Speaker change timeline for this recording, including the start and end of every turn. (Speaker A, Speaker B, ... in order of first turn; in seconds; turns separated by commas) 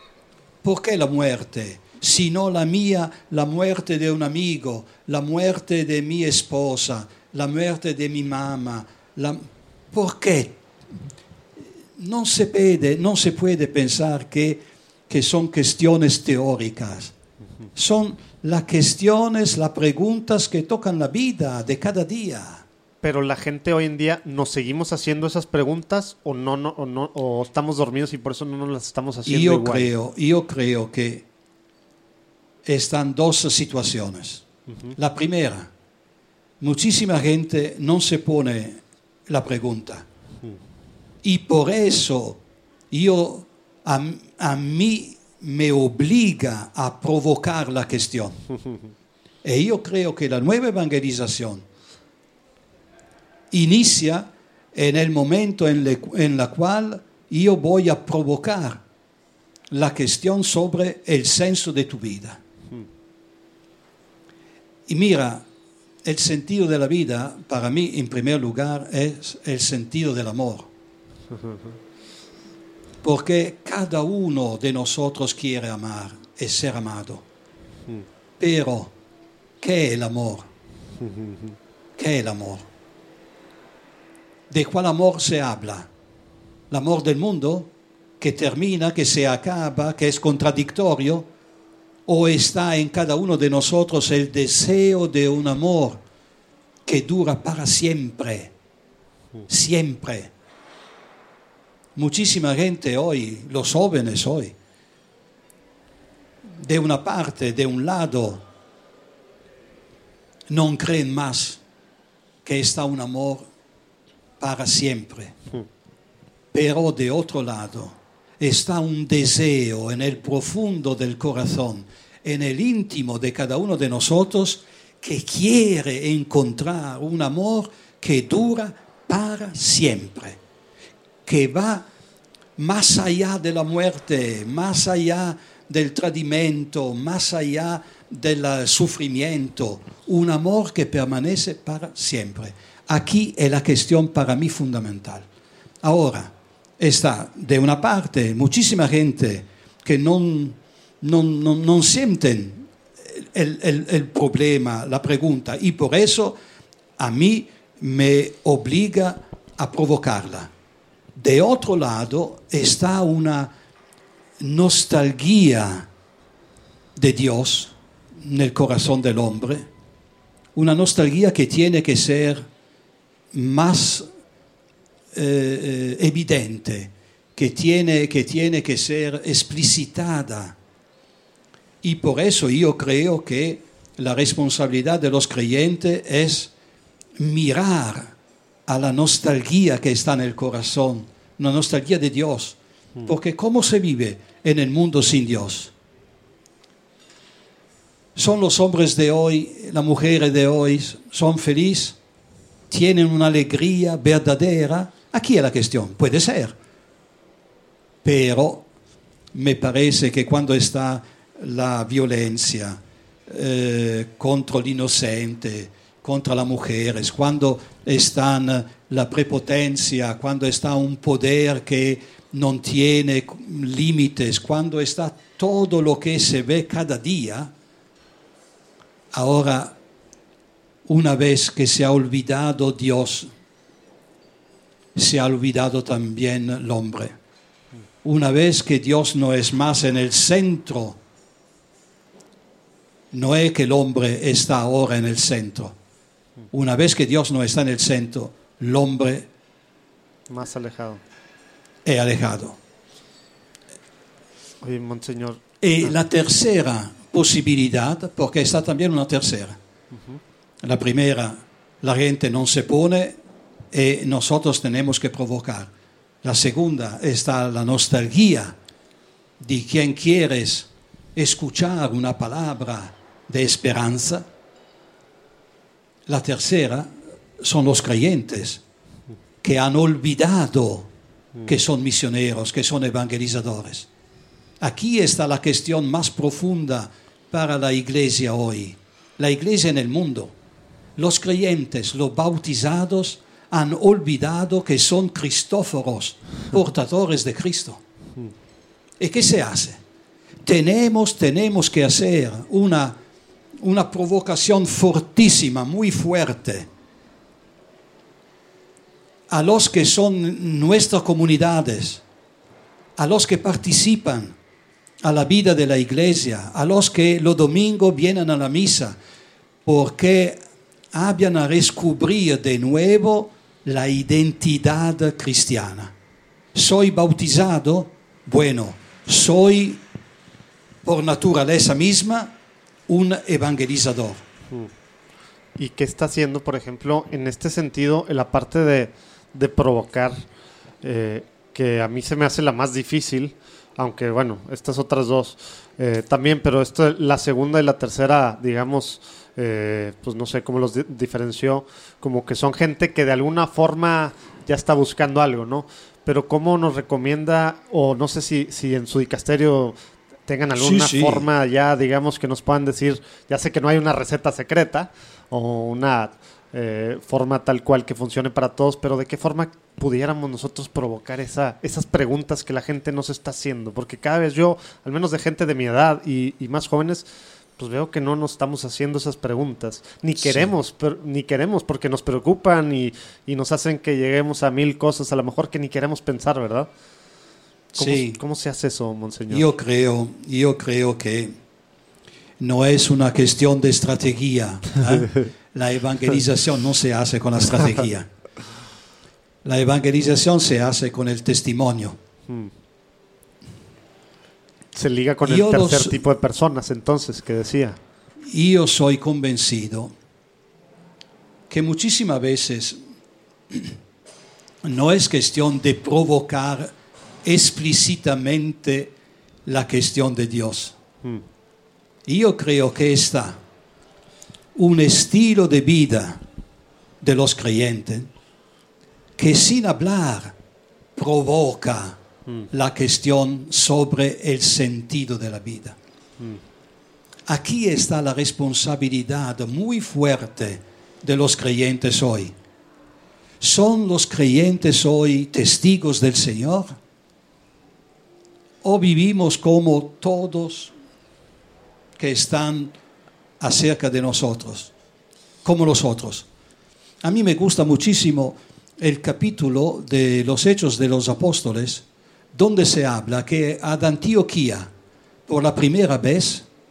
Speaker A: 0.6-10.6, Speaker A: 12.0-17.1, Speaker A: 17.8-22.6, Speaker B: 23.0-29.9, Speaker A: 29.3-31.2, Speaker A: 32.6-34.4, Speaker B: 34.7-34.9, Speaker A: 35.0-35.7, Speaker A: 36.6-40.0, Speaker A: 41.2-42.4, Speaker A: 42.9-48.4, Speaker A: 49.4-51.6, Speaker A: 53.5-58.8, Speaker A: 59.7-62.4, Speaker A: 64.9-65.4, Speaker A: 66.0-70.7, Speaker B: 71.3-71.7, Speaker A: 73.0-77.2, Speaker A: 78.4-78.9, Speaker A: 79.6-80.5, Speaker B: 81.0-81.5, Speaker A: 82.0-82.7, Speaker A: 84.5-85.9, Speaker A: 86.7-91.3, Speaker A: 92.1-96.0, Speaker A: 96.8-98.5, Speaker A: 99.5-100.3, Speaker A: 102.0-104.5, Speaker A: 106.6-108.4, Speaker A: 110.5-111.6, Speaker A: 112.4-113.5, Speaker A: 114.4-115.3, Speaker A: 116.5-130.4, Speaker A: 131.2-131.8, Speaker A: 132.6-145.2, Speaker A: 145.8-156.4, Speaker A: 157.0-160.5, Speaker A: 161.2-163.5, Speaker A: 164.4-165.9, Speaker A: 166.9-169.7, Speaker A: 170.5-172.4, Speaker A: 173.3-174.1, Speaker A: 175.1-180.5, Speaker A: 181.8-186.5, Speaker A: 187.2-188.1, Speaker A: 188.7-195.7, Speaker A: 198.1-202.0, Speaker A: 202.7-206.5, Speaker A: 208.0-208.6, Speaker A: 209.3-227.5, Speaker A: 229.1-229.7, Speaker A: 230.8-233.3, Speaker A: 234.9-237.2, Speaker A: 238.0-241.0, Speaker A: 243.1-245.7, Speaker A: 246.5-249.3, Speaker B: 250.3-251.0, Speaker A: 251.8-252.6, Speaker B: 254.6-255.4, Speaker A: 255.6-259.6, Speaker A: 260.6-263.2, Speaker A: 263.7-265.7, Speaker A: 266.2-268.6, Speaker A: 269.4-274.3, Speaker A: 276.1-278.6, Speaker A: 279.4-280.9, Speaker A: 281.4-283.9, Speaker A: 284.6-290.3, Speaker A: 291.0-297.8, Speaker A: 299.0-299.8, Speaker A: 300.4-303.0, Speaker A: 303.6-306.7, Speaker A: 309.3-312.0, Speaker A: 313.0-314.3, Speaker A: 315.0-318.9, Speaker A: 319.6-320.4, Speaker A: 320.9-325.9, Speaker A: 326.5-329.8, Speaker A: 330.8-332.3, Speaker A: 332.9-334.2, Speaker B: 335.6-340.2, Speaker B: 340.8-359.8, Speaker B: 360.3-377.1, Speaker A: 360.6-361.3, Speaker B: 377.6-386.7, Speaker A: 380.2-380.5, Speaker A: 387.7-388.2, Speaker B: 387.8-389.5, Speaker A: 389.3-391.4, Speaker A: 392.4-398.1, Speaker A: 399.4-402.0, Speaker B: 404.7-407.8, Speaker A: 405.2-406.0, Speaker A: 408.3-409.9, Speaker A: 411.5-412.8, Speaker A: 413.5-413.8, Speaker A: 414.6-418.9, Speaker A: 419.4-420.8, Speaker A: 422.1-423.4, Speaker A: 424.5-426.2, Speaker A: 427.0-428.1, Speaker A: 429.2-430.3, Speaker A: 430.9-432.0, Speaker A: 432.5-435.8, Speaker A: 437.3-442.4, Speaker A: 443.4-446.8, Speaker A: 448.6-450.7, Speaker A: 452.0-452.7, Speaker A: 453.4-454.7, Speaker A: 455.4-456.3, Speaker A: 457.0-464.7, Speaker A: 465.3-466.4